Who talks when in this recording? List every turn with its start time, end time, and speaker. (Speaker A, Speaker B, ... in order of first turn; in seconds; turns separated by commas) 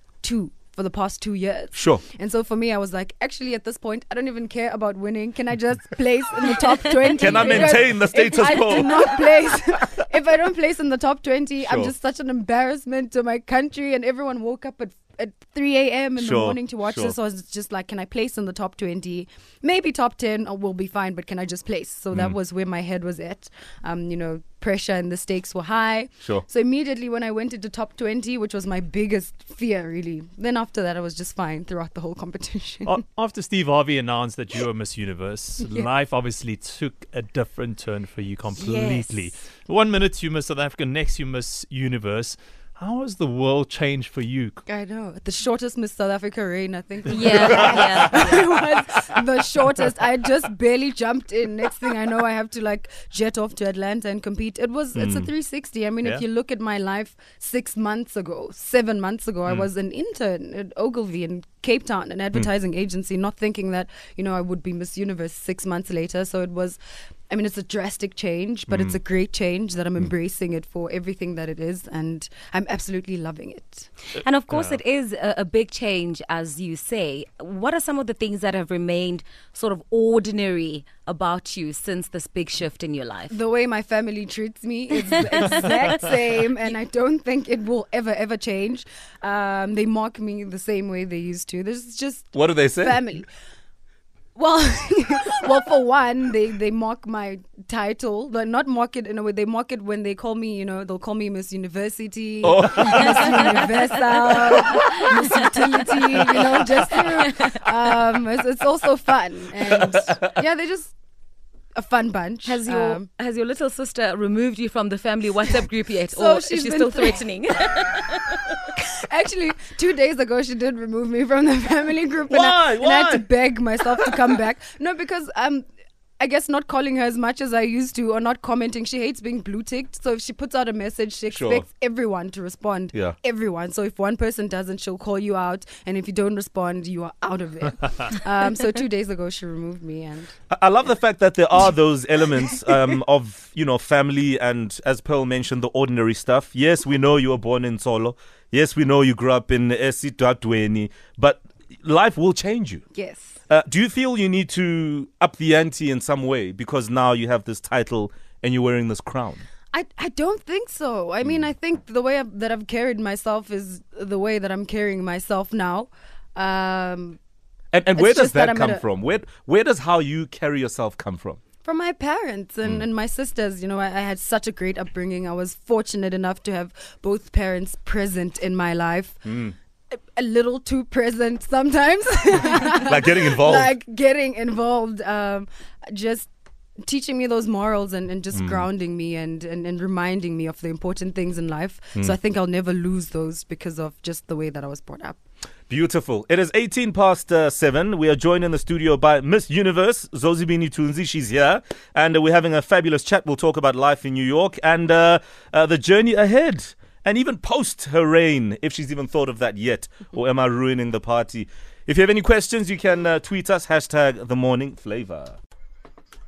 Speaker A: 0.2-33.0, Speaker B: 1.8-2.0, Speaker B: 7.1-9.1, Speaker B: 11.6-11.9, Speaker B: 16.2-17.1, Speaker C: 32.8-44.6, Speaker A: 35.6-35.9, Speaker A: 38.6-39.3, Speaker A: 44.7-66.8, Speaker D: 47.1-48.3, Speaker B: 55.0-55.3, Speaker A: 67.3-73.9, Speaker B: 68.7-69.0, Speaker D: 74.2-83.4, Speaker A: 83.3-93.3, Speaker D: 85.1-86.0, Speaker B: 92.3-93.0, Speaker A: 94.4-111.0, Speaker B: 102.4-103.6, Speaker B: 104.3-104.8, Speaker D: 104.8-105.3, Speaker D: 106.0-106.5, Speaker B: 106.2-106.5, Speaker D: 107.2-107.6, Speaker B: 109.7-110.2, Speaker A: 111.8-113.1, Speaker D: 112.5-118.7, Speaker A: 116.1-117.2, Speaker A: 118.8-125.7, Speaker B: 122.3-123.3, Speaker A: 126.2-140.4, Speaker B: 131.3-131.7, Speaker B: 140.5-152.8, Speaker A: 152.9-153.4, Speaker B: 153.5-159.4, Speaker A: 159.7-167.2, Speaker B: 167.7-171.4, Speaker A: 167.9-168.8, Speaker A: 171.7-179.3, Speaker B: 179.2-179.6, Speaker A: 179.9-186.3, Speaker B: 182.8-183.7, Speaker A: 186.8-195.2, Speaker B: 188.3-188.7, Speaker B: 195.7-215.4